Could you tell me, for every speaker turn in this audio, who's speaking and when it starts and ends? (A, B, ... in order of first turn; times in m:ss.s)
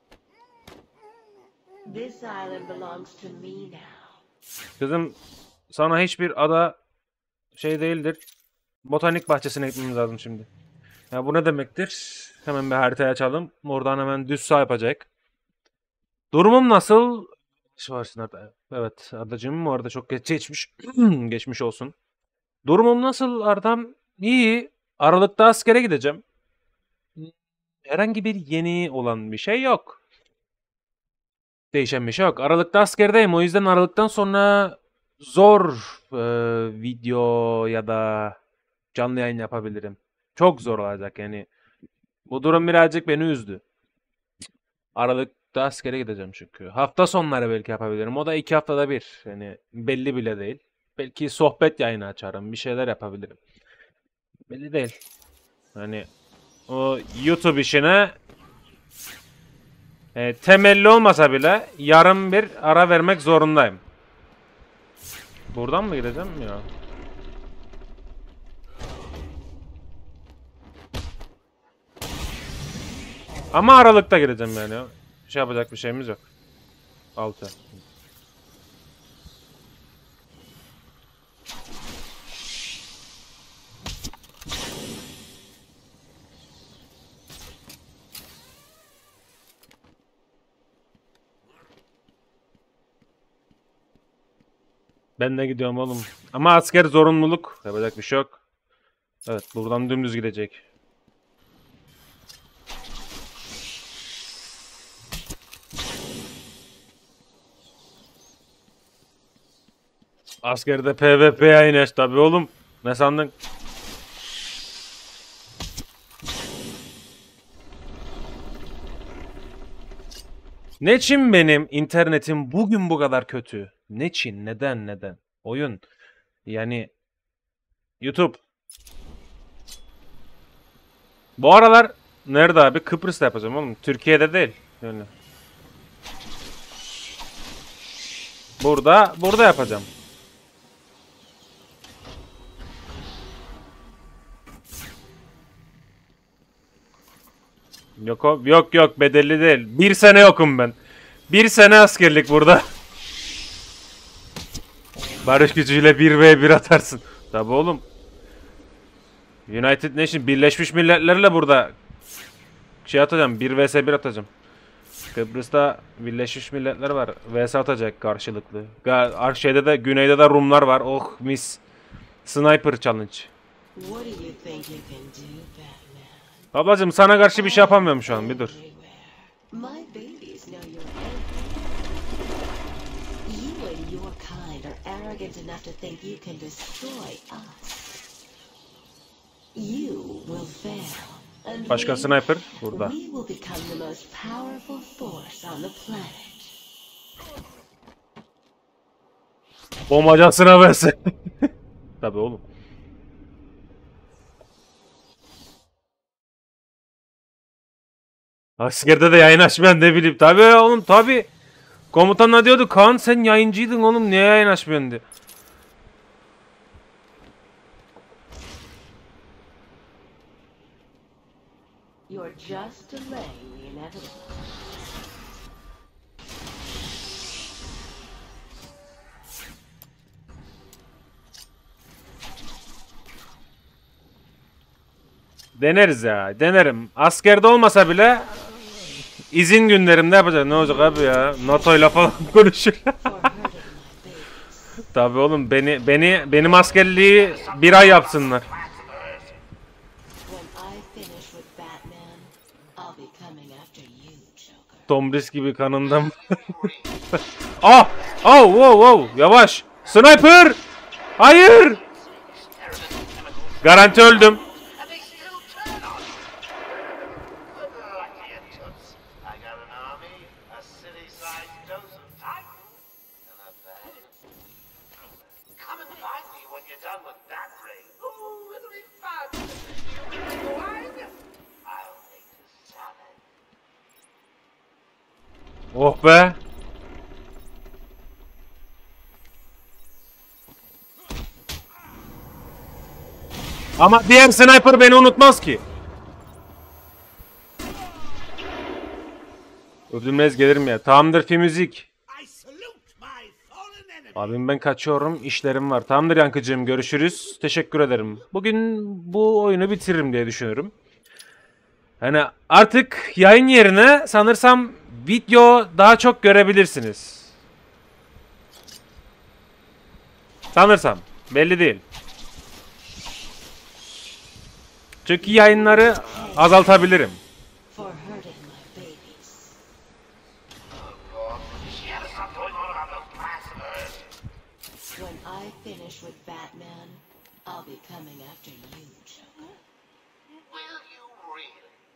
0:04.8-0:05.2 A
0:05.7-0:06.8 A
0:07.6-0:08.2 A
0:08.8-0:10.5 A
0:11.1-0:15.1 A
0:16.3-0:21.9 A
0:22.7-0:26.2 A
0:27.9-0:30.0 A
0:31.7-0:38.4 A
0:38.9-0:41.5 A
0:42.3-0:43.6 A
0:45.0-0:53.4 A
0:54.5-0:55.0 A
0:55.8-0:56.1 A
0:56.7-0:58.2 A
1:00.2-1:03.8 A
1:05.5-1:06.7 A
1:13.5-1:16.2 A
1:17.2-1:17.7 A
1:35.2-1:38.4 A
1:39.3-1:40.6 A
1:50.4-1:53.3 A
2:00.8-2:05.8 A
2:06.5-2:06.9 A
2:08.0-2:08.4 A
2:11.4-2:15.1 A
2:18.6-2:19.9 A
2:28.0-2:30.8 A
2:31.3-2:32.7 A
2:35.2-2:37.8 A
2:39.5-2:41.8 A
2:42.9-2:44.3 A
2:45.1-2:51.6 A
2:52.2-2:53.3 A
2:53.8-2:56.3 B
2:56.5-2:58.6 A
2:57.3-3:01.7 B
3:03.3-3:07.8 B
3:09.6-3:13.2 B
3:11.7-3:12.9 A
3:14.9-3:15.4 B
3:16.1-3:16.4 B
3:19.9-3:21.5 A
3:22.0-3:22.4 A
3:28.6-3:31.3 A
3:31.9-3:35.0 A
3:42.1-3:44.3 B
3:55.6-3:58.4 A
3:59.3-4:03.3 A
4:03.0-4:04.4 B
4:04.9-4:08.4 A
4:06.9-4:09.4 C
4:10.2-4:14.8 B
4:14.9-4:16.2 A
4:15.8-4:20.0 C
4:17.6-4:20.6 A
4:21.2-4:21.8 A
4:21.2-4:34.2 C
4:23.6-4:24.4 A
4:35.5-4:41.1 C
4:41.6-4:43.2 C
4:45.7-4:46.4 A
4:53.8-4:55.6 A
4:59.9-5:01.9 A
5:02.1-5:04.4 C
5:04.2-5:10.7 A
5:12.0-5:17.3 A
5:20.6-5:21.8 A
5:25.0-5:27.2 A
5:27.7-5:29.6 B
5:30.7-5:34.1 C
5:35.0-5:39.6 B
5:40.3-5:41.8 C